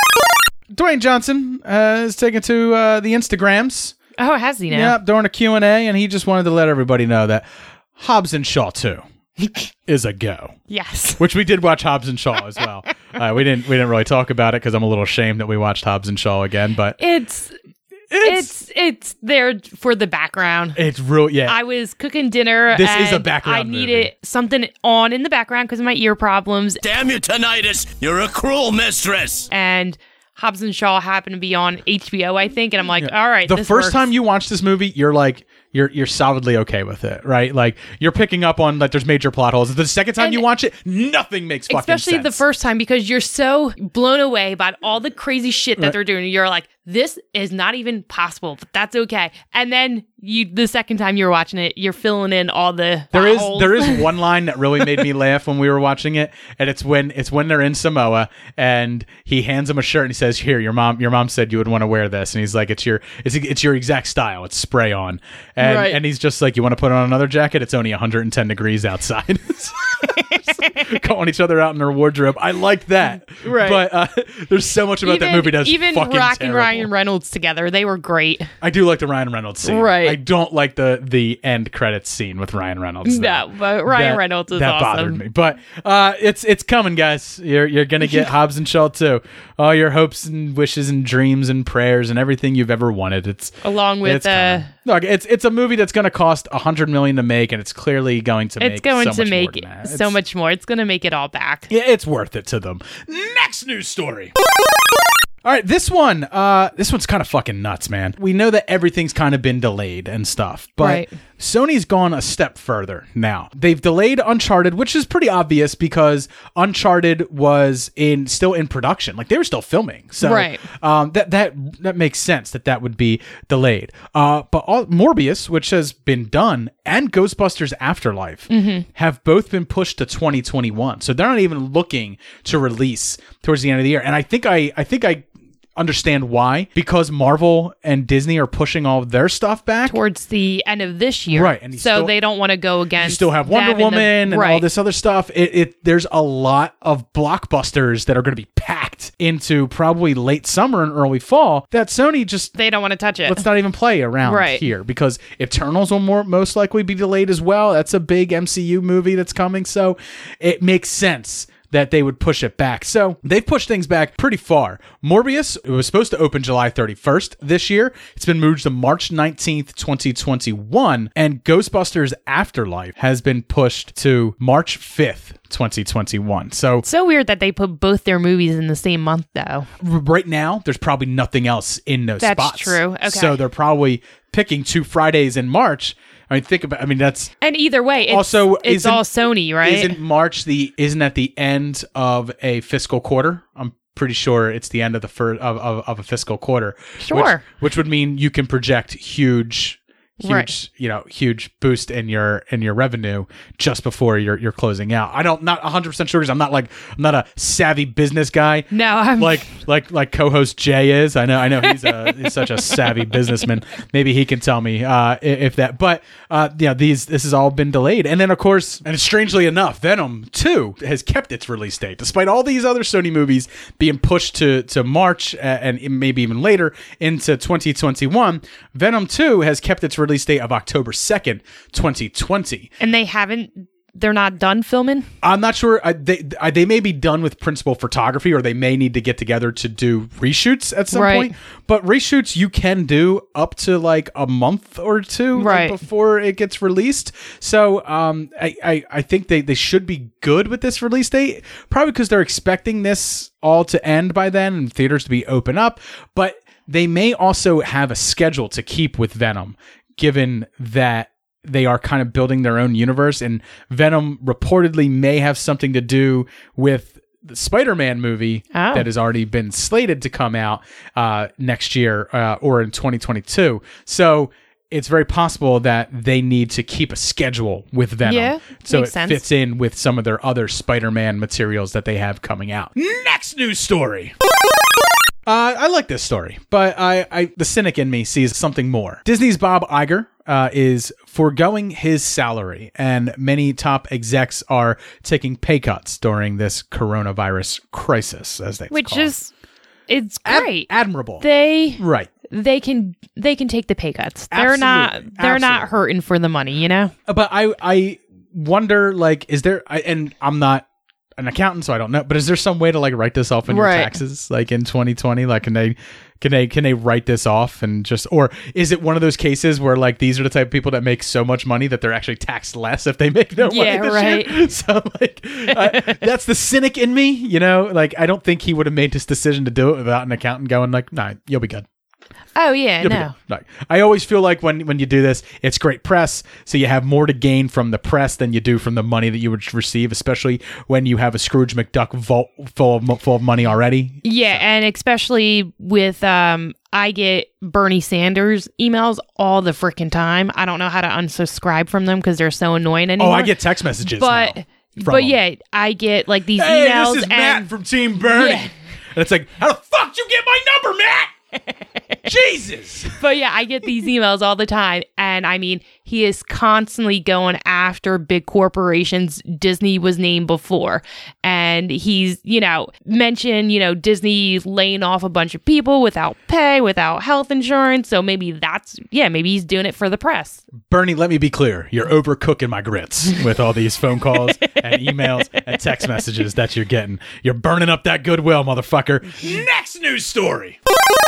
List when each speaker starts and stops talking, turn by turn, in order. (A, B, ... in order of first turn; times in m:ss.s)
0:00.7-0:04.0 A
0:04.2-0:05.0 B
0:04.7-0:09.0 A
0:09.8-0:10.6 A
0:10.7-0:11.2 B
0:11.2-0:17.0 A
0:17.0-0:17.5 B
0:18.1-0:18.5 A
0:18.2-0:20.8 B
0:20.7-0:21.6 A
0:21.4-0:26.8 B
0:22.7-0:24.1 A
0:27.0-0:29.4 C
0:29.5-0:34.0 B
0:33.0-0:42.4 A
0:40.2-0:40.4 B
0:41.7-0:54.0 B
0:53.1-1:16.9 A
1:05.6-1:06.0 B
1:13.3-1:13.8 B
1:15.0-1:18.5 B
1:18.6-1:40.2 A
1:19.6-1:20.2 B
1:23.0-1:25.2 B
1:33.6-1:34.7 B
1:38.6-1:41.7 B
1:41.7-1:44.3 A
1:45.4-2:20.0 A
1:50.8-1:51.1 B
2:00.2-2:00.6 B
2:08.5-2:08.8 B
2:19.8-2:24.6 B
2:21.3-2:22.1 A
2:23.0-2:32.5 A
2:32.6-2:33.4 B
2:33.2-2:56.8 A
2:34.2-2:34.6 B
2:56.8-2:59.7 B
2:59.8-3:07.3 A
3:02.2-3:03.4 B
3:07.4-3:10.0 B
3:08.0-3:09.0 A
3:09.6-3:52.7 A
3:17.0-3:17.4 B
3:20.2-3:20.5 B
3:28.7-3:29.5 B
3:52.8-3:55.1 B
3:55.2-4:44.1 A
4:00.9-4:01.3 B
4:05.3-4:05.8 B
4:28.5-4:28.9 B
4:38.0-4:39.2 B
4:45.2-4:59.1 A
4:58.7-4:59.3 B
4:59.9-5:00.7 B
5:00.2-5:01.2 A
5:01.2-5:06.9 B
5:01.8-5:02.1 A
5:04.3-5:05.7 A
5:07.0-5:10.6 A
5:11.2-5:31.6 A
5:13.5-5:13.9 B
5:23.4-5:24.4 B
5:25.5-5:25.9 B
5:32.4-5:33.1 B
5:32.8-5:44.4 A
5:44.0-5:53.3 B
5:53.0-5:55.2 A
5:53.9-5:57.5 B
5:56.3-6:01.1 A
5:58.1-5:58.5 B
6:02.0-6:03.0 A
6:03.0-6:20.4 B
6:20.7-6:30.6 A